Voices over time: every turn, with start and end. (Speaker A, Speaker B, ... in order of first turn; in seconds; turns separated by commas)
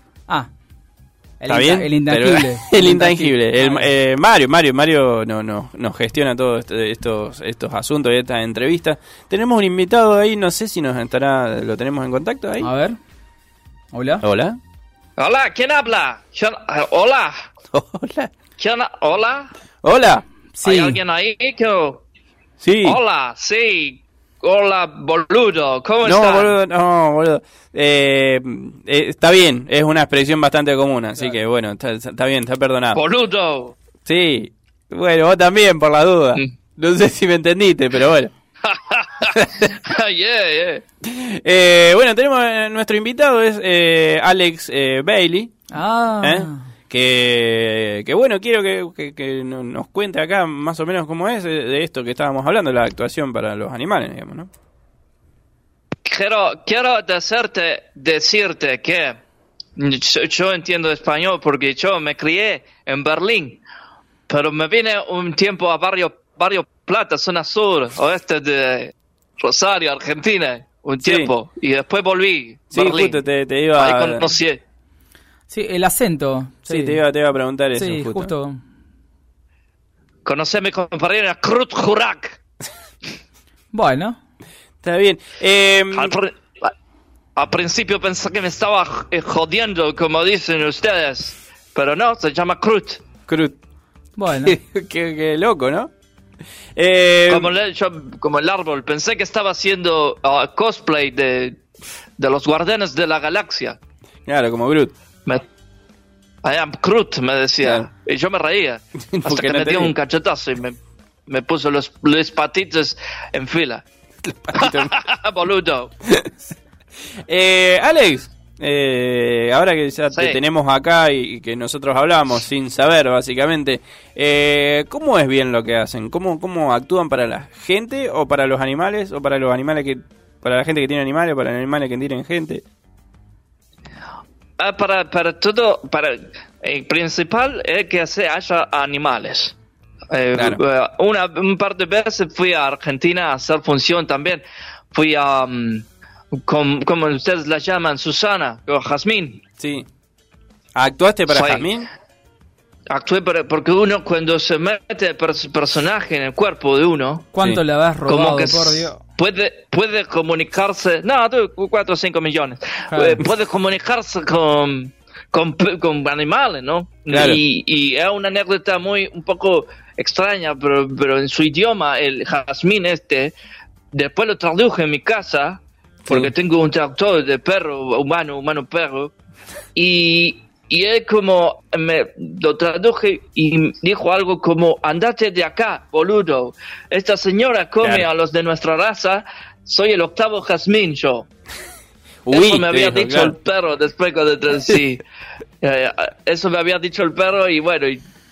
Speaker A: 1.4-3.9, Speaker B: 1.5-12.7, Speaker A: 12.6-12.9, Speaker A: 13.9-14.2, Speaker B: 14.2-14.6, Speaker C: 15.2-17.4, Speaker B: 17.7-18.3, Speaker C: 18.6-19.5, Speaker B: 19.8-20.2, Speaker A: 20.6-21.0, Speaker C: 20.6-22.0, Speaker B: 22.6-23.0, Speaker C: 22.8-26.6, Speaker B: 26.0-33.0, Speaker C: 32.9-33.7, Speaker B: 34.0-38.3, Speaker C: 38.6-40.8, Speaker B: 39.3-39.7, Speaker B: 41.0-45.5, Speaker A: 45.7-46.6, Speaker B: 46.2-54.5, Speaker C: 56.0-59.2, Speaker C: 59.8-63.6, Speaker C: 64.3-73.2, Speaker B: 71.0-71.3, Speaker B: 72.7-74.3, Speaker C: 73.8-74.6, Speaker A: 75.5-77.0, Speaker B: 76.7-78.3, Speaker A: 77.7-78.6, Speaker C: 80.2-82.4, Speaker A: 83.7-84.2, Speaker B: 84.8-86.1, Speaker C: 85.9-86.7, Speaker C: 87.3-93.0, Speaker B: 93.3-93.5, Speaker A: 94.2-94.6, Speaker B: 94.3-95.9, Speaker B: 96.8-97.5, Speaker C: 97.3-101.6, Speaker C: 102.2-103.8, Speaker B: 104.2-104.9, Speaker C: 106.4-113.8, Speaker B: 107.6-107.9, Speaker B: 109.1-109.9, Speaker B: 114.2-114.9, Speaker C: 114.5-115.9, Speaker B: 117.3-132.6, Speaker C: 120.1-120.4, Speaker C: 134.6-139.5, Speaker C: 140.1-145.8, Speaker B: 140.3-140.6, Speaker C: 146.4-149.4, Speaker B: 149.6-149.9, Speaker B: 150.8-151.9, Speaker C: 151.3-151.7, Speaker C: 152.9-157.3, Speaker A: 157.3-159.0, Speaker C: 158.1-173.3, Speaker A: 162.9-163.2, Speaker B: 167.1-167.4, Speaker C: 173.9-179.1, Speaker B: 176.1-176.3, Speaker C: 179.7-191.3, Speaker B: 187.8-188.1, Speaker B: 192.2-193.3, Speaker C: 192.3-195.0, Speaker C: 195.6-198.0